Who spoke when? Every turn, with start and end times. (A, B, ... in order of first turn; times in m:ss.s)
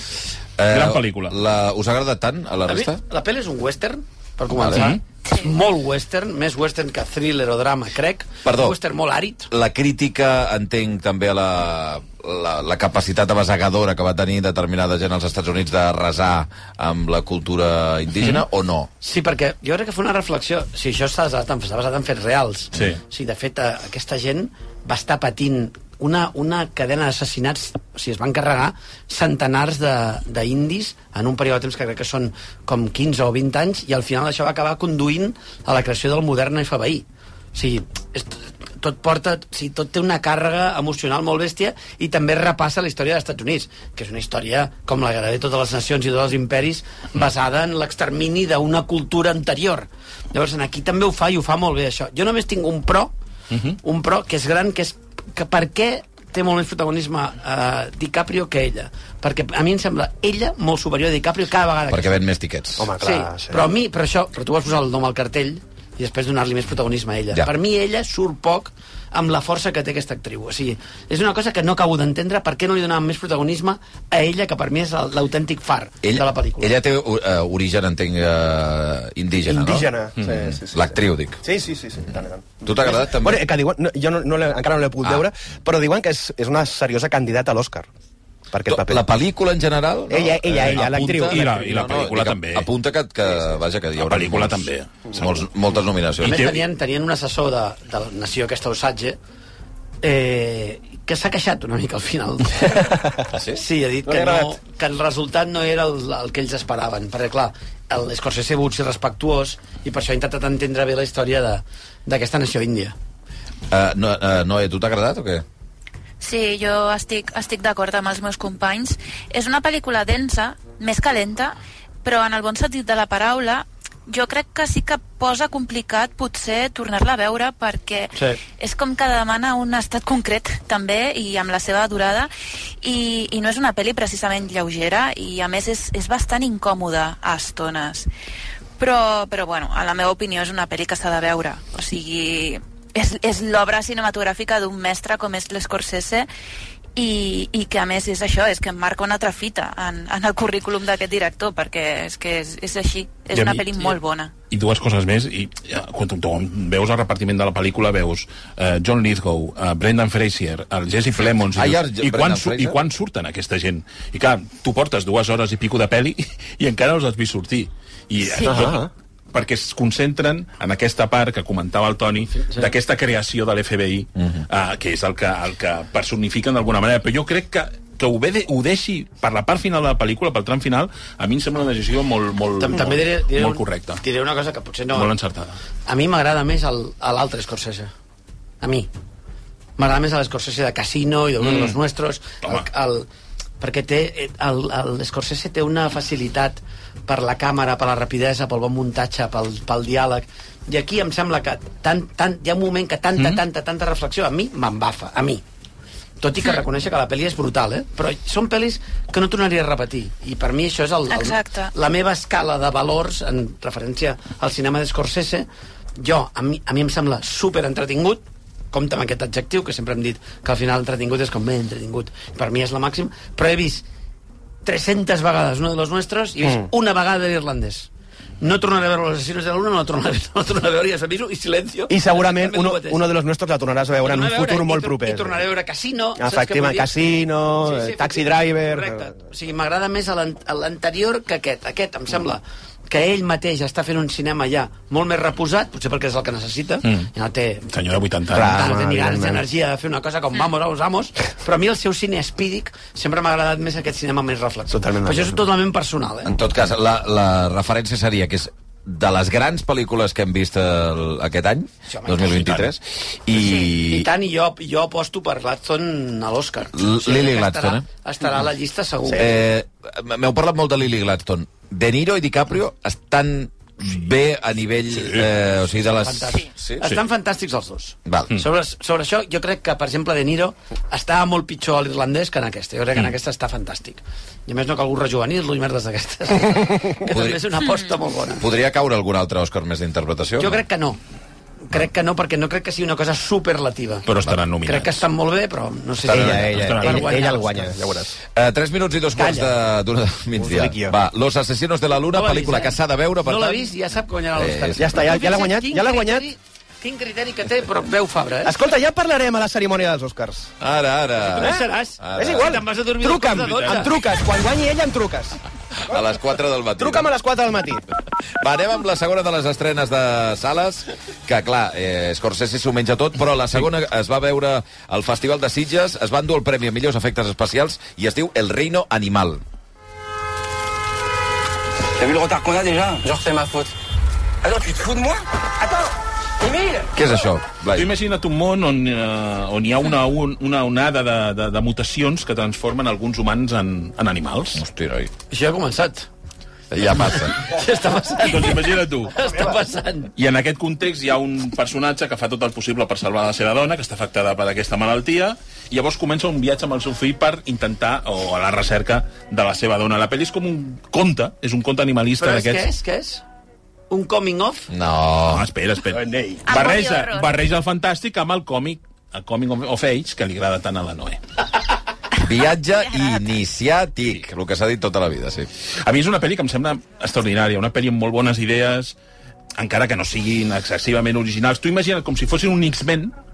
0:00.6-0:03.0 A
0:00.7-0:01.4 B
0:02.7-0:09.5 C
0:04.5-0:04.9 A
0:04.7-0:05.0 B
0:08.4-0:08.8 A
0:09.5-0:18.9 A
0:19.0-0:53.1 C
0:22.7-0:23.0 B
0:53.5-0:53.8 B
0:53.8-1:02.2 C
1:01.9-1:02.9 A
1:02.8-1:03.7 D
1:03.0-1:16.7 C
1:16.0-1:21.4 A
1:19.5-1:27.9 D
1:22.6-1:23.5 A
1:28.5-1:29.0 D
1:28.7-1:36.5 A
1:30.1-1:31.4 D
1:30.6-1:32.7 B
1:34.0-1:35.2 B
1:36.2-1:39.2 C
1:36.2-1:36.6 B
1:40.0-1:43.0 C
1:43.3-1:43.6 A
1:43.5-1:52.9 C
1:44.2-1:44.5 D
1:53.7-1:55.4 A
1:56.2-2:12.3 E
2:08.1-2:08.4 C
2:12.8-2:18.1 E
2:18.8-2:26.3 E
2:27.0-2:34.3 E
2:33.3-2:33.9 B
2:34.5-3:04.0 B
2:41.5-2:42.8 A
2:48.3-2:48.5 E
2:48.4-2:48.9 D
2:52.3-2:52.7 C
3:02.6-3:05.1 C
3:04.9-3:05.6 B
3:05.8-3:07.9 C
3:08.6-3:08.9 C
3:09.8-3:13.1 C
3:11.4-3:11.8 B
3:13.6-3:25.4 C
3:26.2-3:35.5 C
3:31.1-3:31.7 E
3:36.0-3:43.8 C
3:44.6-3:47.9 C
3:48.4-3:53.0 C
3:51.9-3:55.4 D
3:54.0-4:16.3 C
3:56.2-3:59.0 D
4:06.8-4:07.1 B
4:07.7-4:08.6 B
4:08.3-4:09.4 D
4:14.7-4:15.4 D
4:16.2-4:24.1 A
4:21.9-4:22.7 C
4:23.4-4:29.4 C
4:26.7-4:27.8 A
4:29.1-4:36.9 A
4:35.0-4:35.3 B
4:35.7-4:48.4 C
4:38.0-4:38.4 A
4:47.1-4:47.5 A
4:48.4-4:50.6 A
4:50.4-4:51.0 C
4:51.7-4:54.1 C
4:54.0-4:55.0 B
4:54.6-4:57.7 C
4:56.0-4:56.7 A
4:56.0-4:58.2 D
4:56.5-4:57.2 B
4:58.3-5:03.7 A
4:59.2-4:59.5 C
5:00.4-5:00.9 D
5:02.1-5:08.6 C
5:04.3-5:05.2 A
5:04.8-5:06.2 D
5:08.4-5:10.5 D
5:10.6-5:12.6 A
5:11.3-5:13.9 C
5:11.4-5:15.4 D
5:13.5-5:13.8 B
5:15.8-5:17.1 A
5:16.8-5:17.8 D
5:18.4-5:29.4 A
5:32.0-5:33.6 F
5:34.5-5:35.0 F
5:36.9-5:37.9 A
5:37.7-5:44.6 B
5:44.5-5:45.1 A
5:45.3-5:46.1 C
5:46.7-5:47.5 A
5:47.1-5:50.1 C
5:48.2-5:49.2 B
5:50.2-6:02.7 B
6:02.2-6:03.2 C
6:03.9-6:04.7 C
6:04.7-6:05.4 A
6:05.3-6:11.2 B
6:06.0-6:06.4 D
6:06.4-6:07.3 E
6:12.2-6:15.5 A
6:12.9-6:13.2 E
6:15.8-6:19.0 B
6:19.6-6:23.1 B